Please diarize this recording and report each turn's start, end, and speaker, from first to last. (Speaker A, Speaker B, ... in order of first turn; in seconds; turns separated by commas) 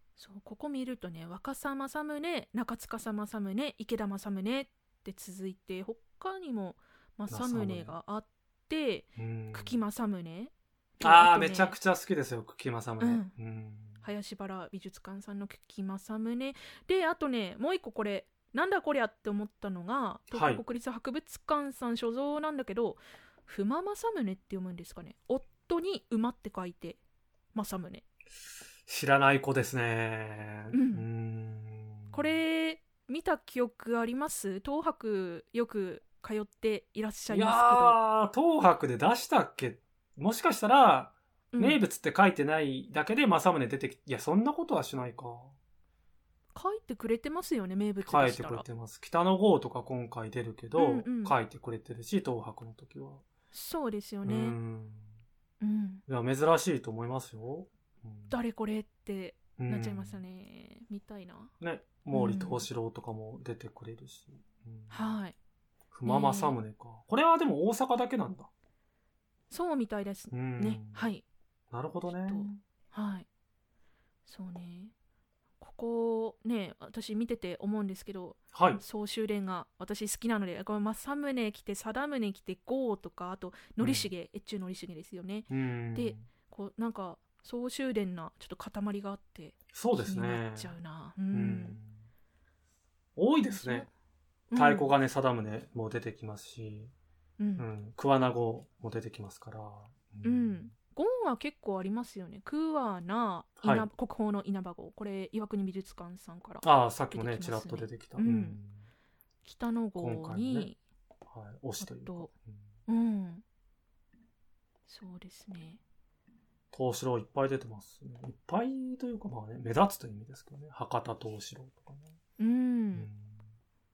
Speaker A: 0.2-11.7, Speaker B: 7.3-7.9, Speaker B: 9.2-9.8, Speaker B: 11.0-14.0, Speaker A: 13.0-13.3, Speaker A: 14.0-27.0, Speaker B: 20.3-20.6, Speaker A: 27.5-28.0, Speaker B: 28.9-32.4, Speaker A: 30.7-31.1, Speaker A: 32.1-38.0, Speaker B: 37.3-45.5, Speaker A: 41.5-41.8, Speaker A: 46.5-48.6, Speaker B: 48.0-53.2, Speaker A: 50.8-51.4, Speaker A: 53.5-54.6, Speaker B: 54.2-55.1, Speaker A: 55.6-56.0, Speaker B: 56.1-58.4, Speaker A: 58.3-61.5, Speaker B: 59.6-60.2, Speaker B: 61.6-65.1, Speaker A: 62.1-62.6, Speaker A: 64.9-65.3, Speaker B: 65.9-68.5, Speaker A: 66.0-66.6, Speaker A: 69.5-71.2, Speaker B: 70.3-71.1, Speaker B: 71.7-72.5, Speaker A: 72.2-73.3, Speaker A: 74.2-74.9, Speaker A: 75.6-91.8, Speaker B: 78.5-78.8, Speaker B: 83.8-84.1, Speaker B: 85.5-86.2, Speaker B: 89.7-90.7, Speaker B: 91.3-92.0, Speaker B: 93.2-93.9, Speaker A: 93.5-93.9, Speaker A: 94.5-94.9, Speaker B: 94.5-96.9, Speaker A: 97.4-97.7, Speaker B: 97.6-100.7, Speaker A: 100.2-108.6, Speaker B: 103.6-103.9, Speaker B: 106.6-108.8, Speaker A: 109.4-110.8, Speaker B: 110.0-110.7, Speaker B: 111.3-112.6, Speaker A: 111.8-112.3, Speaker A: 112.9-113.4, Speaker A: 114.9-115.8, Speaker B: 116.7-122.2, Speaker A: 122.4-123.1, Speaker B: 122.9-123.4